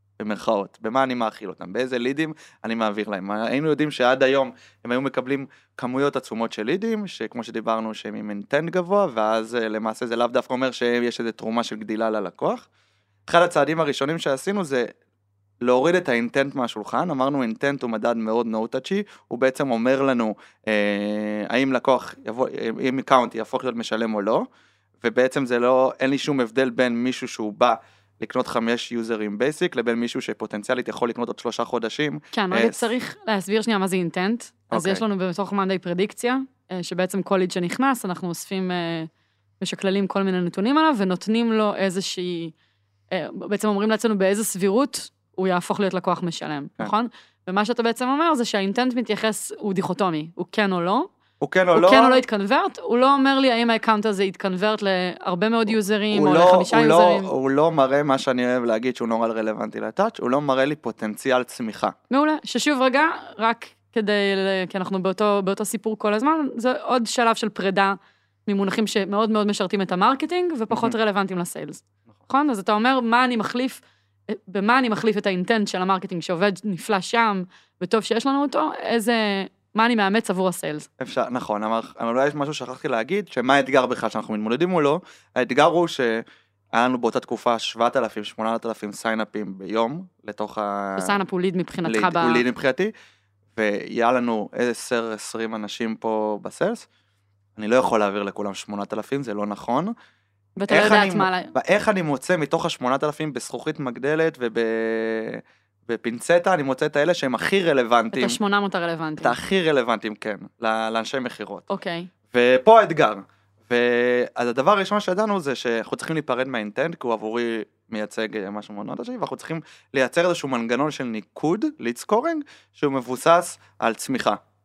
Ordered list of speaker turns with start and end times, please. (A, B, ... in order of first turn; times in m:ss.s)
0:00.2-0:12.6 A
0:13.2-0:14.9 A
0:15.6-0:24.5 A
0:25.0-0:32.8 A
0:32.3-0:39.1 B
0:34.7-0:35.0 A
0:39.6-0:42.5 B
0:43.1-0:51.1 B
0:51.4-0:52.2 A
0:51.7-0:57.3 B
0:56.1-1:01.9 A
1:02.1-1:20.9 B
1:21.0-1:31.2 A
1:31.0-1:32.4 B
1:31.8-1:32.9 A
1:33.6-1:36.8 A
1:37.6-1:39.9 A
1:40.6-1:41.5 B
1:40.7-1:48.4 A
1:48.1-1:49.4 B
1:49.2-1:51.7 A
1:51.7-1:52.1 B
1:52.3-2:04.4 A